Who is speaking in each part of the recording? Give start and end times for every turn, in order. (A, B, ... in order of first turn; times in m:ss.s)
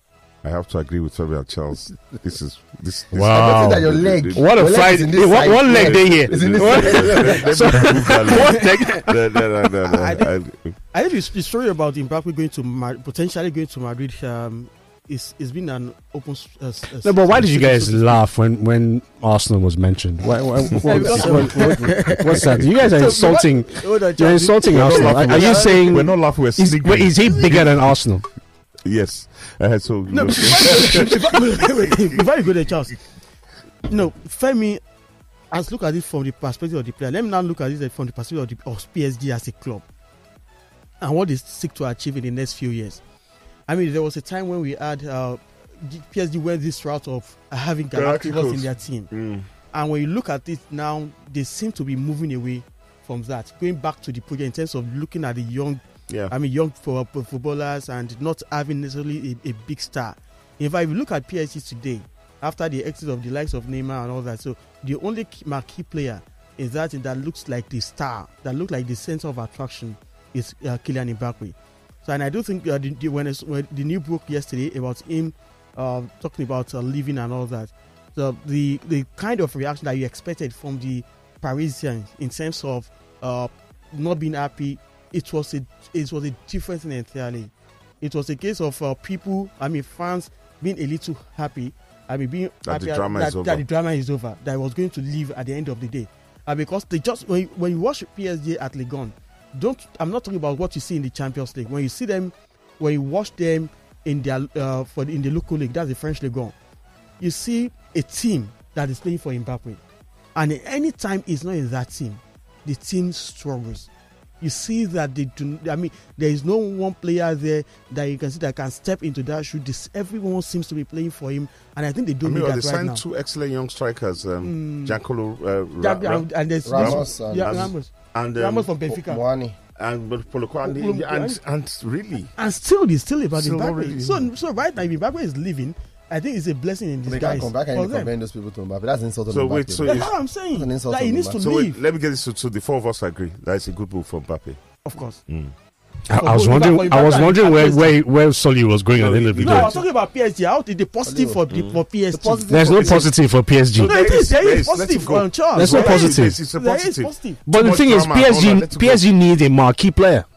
0:00.4-0:04.5 A
0:03.1-0:09.1 B
0:03.2-0:07.9 C
0:05.3-0:10.8 A
0:08.6-0:09.0 D
0:09.8-0:10.3 D
0:10.9-0:18.2 D
0:17.0-0:28.2 B
0:20.6-0:22.0 C
0:20.8-0:26.1 D
0:24.7-0:27.8 A
0:28.8-0:32.2 A
0:30.1-0:33.0 D
0:33.9-0:34.8 D
0:35.5-0:39.8 D
0:41.0-0:43.0 D
0:43.7-0:49.1 D
0:47.9-0:49.5 A
0:49.7-1:27.5 D
0:56.1-0:56.3 A
1:28.0-1:46.5 D
1:32.6-1:33.6 A
1:47.2-1:49.8 D
1:50.3-1:53.9 D
1:54.4-2:03.0 D
2:02.2-2:08.7 A
2:04.4-2:05.0 D
2:05.8-2:09.2 D
2:06.6-2:07.7 C
2:08.9-2:09.6 C
2:09.8-2:12.3 A
2:10.6-2:11.4 D
2:12.4-2:18.1 D
2:13.3-2:14.3 A
2:17.0-2:21.4 C
2:19.3-2:20.1 A
2:19.8-2:21.8 D
2:21.4-2:24.6 A
2:24.8-2:25.2 D
2:25.3-2:25.5 A
2:26.1-2:29.7 B
2:26.1-2:28.0 D
2:28.9-2:29.8 A
2:29.4-2:32.5 D
2:31.0-2:31.4 C
2:31.5-2:31.8 A
2:32.1-2:33.1 C
2:32.5-2:34.0 B
2:32.8-2:33.1 A
2:33.8-2:39.0 A
2:33.8-2:37.4 D
2:35.5-2:36.4 B
2:37.5-2:40.2 B